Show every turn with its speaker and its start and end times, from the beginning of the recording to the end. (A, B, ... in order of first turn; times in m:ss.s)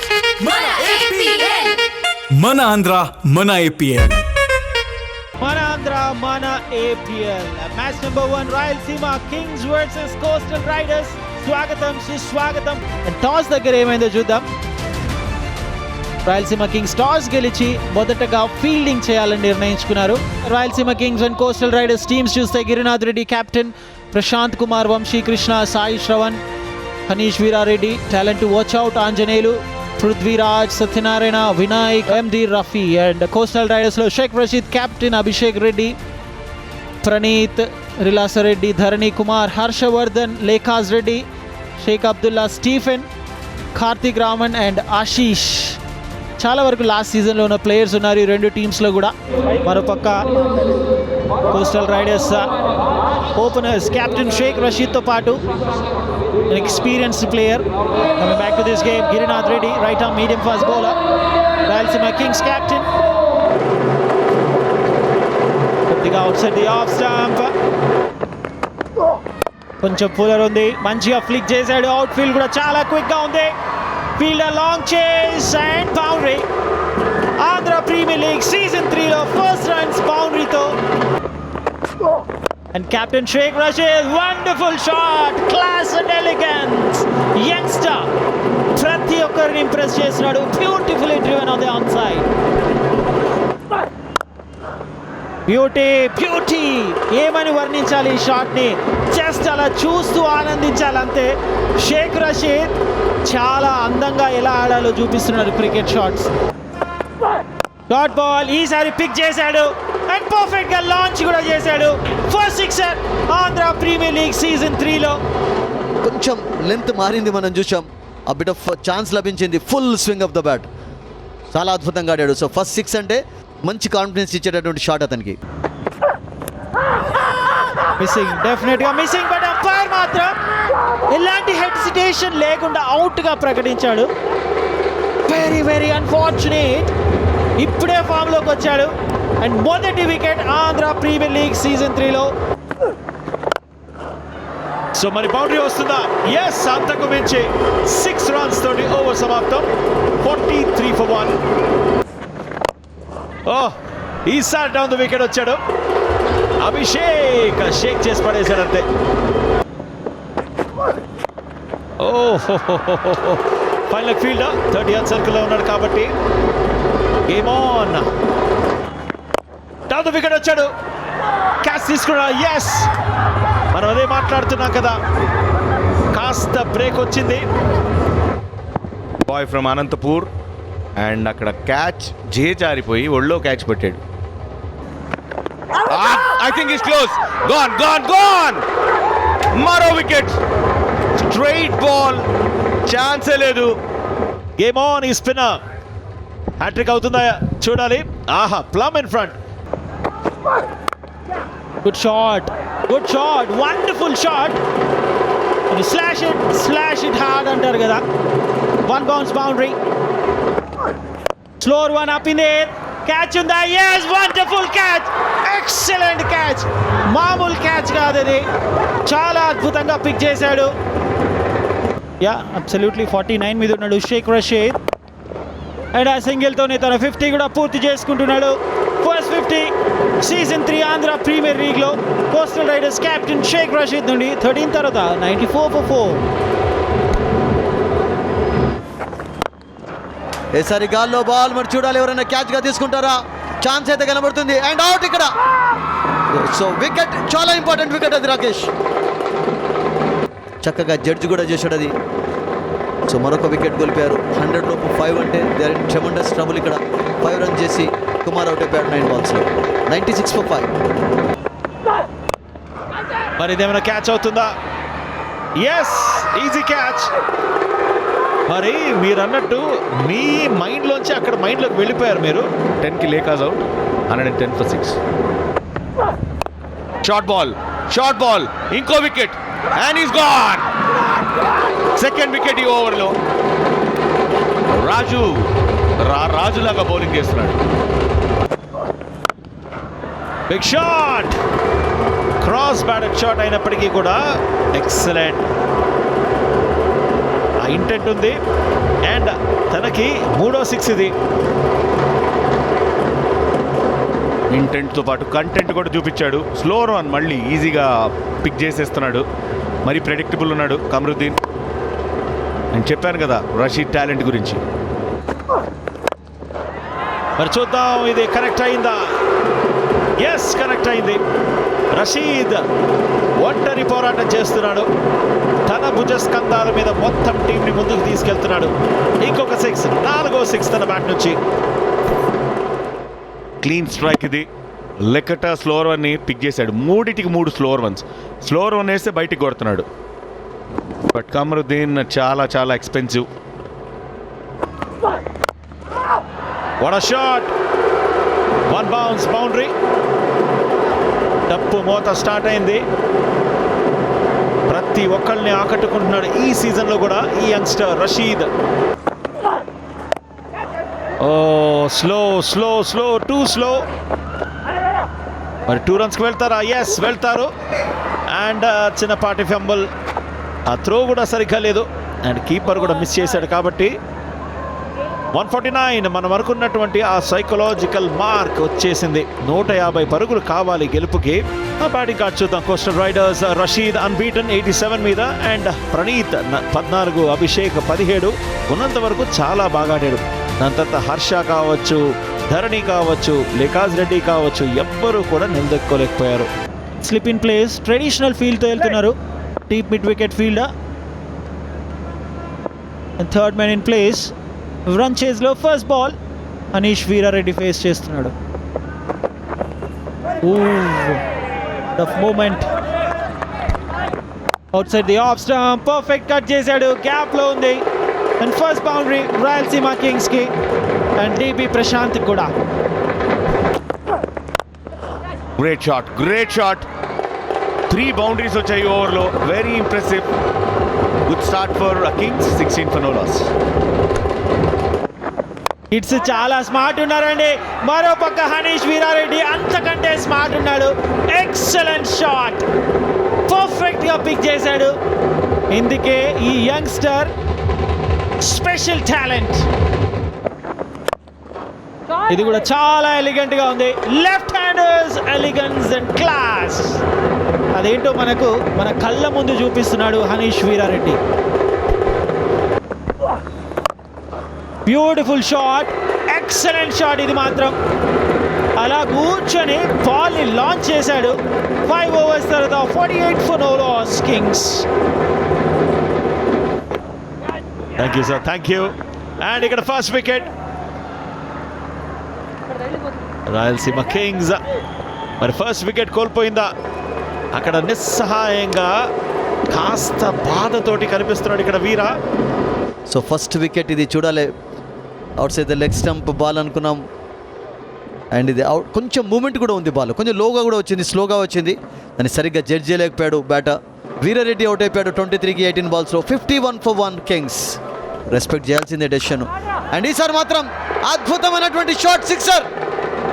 0:00.4-0:01.7 A
0:02.3-0:04.2 A
0:05.4-0:14.5 B
0:16.2-0:26.4 B
0:27.1-0:36.0 B
0:37.0-0:41.2 B
0:41.8-0:43.1 B
0:43.7-0:45.8 B
0:46.4-0:50.2 B
0:51.5-0:52.4 B
0:53.3-0:55.4 B
0:56.5-0:57.6 B
0:58.2-1:01.0 B
1:01.6-1:02.9 B
1:05.9-1:07.5 B
1:09.8-1:13.5 B
1:14.2-1:16.4 B
1:17.4-1:20.8 B
1:22.7-1:28.1 B
1:28.7-1:32.3 B
1:35.5-1:46.3 B
1:47.9-1:55.2 B
1:56.0-2:00.7 C
2:01.5-2:05.4 C
2:08.0-2:10.3 B
2:11.1-2:14.1 B
2:15.2-2:16.9 B
2:17.6-2:22.3 B
2:24.9-2:29.7 D
2:30.2-2:31.4 D
2:33.4-2:35.6 D
2:36.6-2:38.8 D
2:42.0-2:46.1 D
2:47.3-2:48.0 D
2:49.9-2:50.7 D
2:51.6-2:52.9 D
2:53.7-2:55.0 D
2:56.1-2:57.4 D
2:59.3-3:00.3 E
3:01.0-3:04.0 E
3:05.9-3:08.6 E
3:09.5-3:10.4 E
3:11.2-3:12.3 E
3:12.8-3:13.8 E
3:14.6-3:15.6 D
3:16.6-3:19.3 D
3:21.8-3:24.6 B
3:25.7-3:28.0 B
3:28.8-3:29.8 B
3:31.6-3:38.4 B
3:39.0-3:40.7 B
3:42.2-3:44.8 B
3:45.9-3:56.2 B
4:00.6-4:05.3 C
4:06.3-4:08.7 C
4:10.6-4:11.9 C
4:13.1-4:20.7 C
4:23.4-4:24.5 D
4:25.6-4:27.1 D
4:28.5-4:32.4 D
4:32.8-4:35.0 E
4:37.0-4:40.7 E
4:42.0-4:43.1 E
4:44.7-4:47.6 E
4:50.5-4:51.3 D
4:52.4-4:54.2 D
4:54.7-4:55.4 D
4:57.6-4:58.4 D
4:59.0-5:01.1 D
5:04.5-5:07.9 E
5:08.4-5:09.2 E
5:09.8-5:11.4 E
5:12.7-5:14.6 E
5:17.4-5:19.0 D
5:20.2-5:21.2 D
5:21.9-5:22.6 D
5:23.4-5:24.9 D
5:25.6-5:31.4 D
5:33.6-5:34.5 E
5:35.0-5:39.8 E
5:41.1-5:43.2 E
5:46.8-5:47.5 D
5:48.7-5:49.7 D
5:51.5-5:52.8 D
5:54.7-5:58.5 D
6:01.2-6:03.8 D
6:05.7-6:07.5 D
6:08.3-6:09.8 D
6:10.7-6:13.9 D
6:15.3-6:36.5 D
6:37.0-6:39.2 B
6:39.7-6:40.7 B
6:43.2-6:44.3 B
6:44.8-6:46.1 B
6:46.7-6:48.3 B
6:50.4-6:51.2 B
6:52.0-6:52.7 B
6:54.7-6:57.8 B
6:58.4-7:00.5 B
7:01.2-7:02.5 B
7:05.6-7:06.8 E
7:07.9-7:10.3 E
7:11.2-7:13.5 E
7:15.9-7:22.6 B
7:23.5-7:24.9 B
7:25.7-7:27.3 B
7:28.4-7:29.7 B
7:32.3-7:37.0 B
7:37.7-7:41.2 B
7:44.8-7:47.8 B
7:48.8-7:54.8 B
7:58.0-8:00.5 D
8:03.5-8:04.6 D
8:05.4-8:06.7 D
8:07.5-8:08.9 D
8:09.7-8:12.2 D
8:13.1-8:14.5 C
8:15.4-8:17.0 C
8:18.3-8:27.8 C
8:28.3-8:32.7 C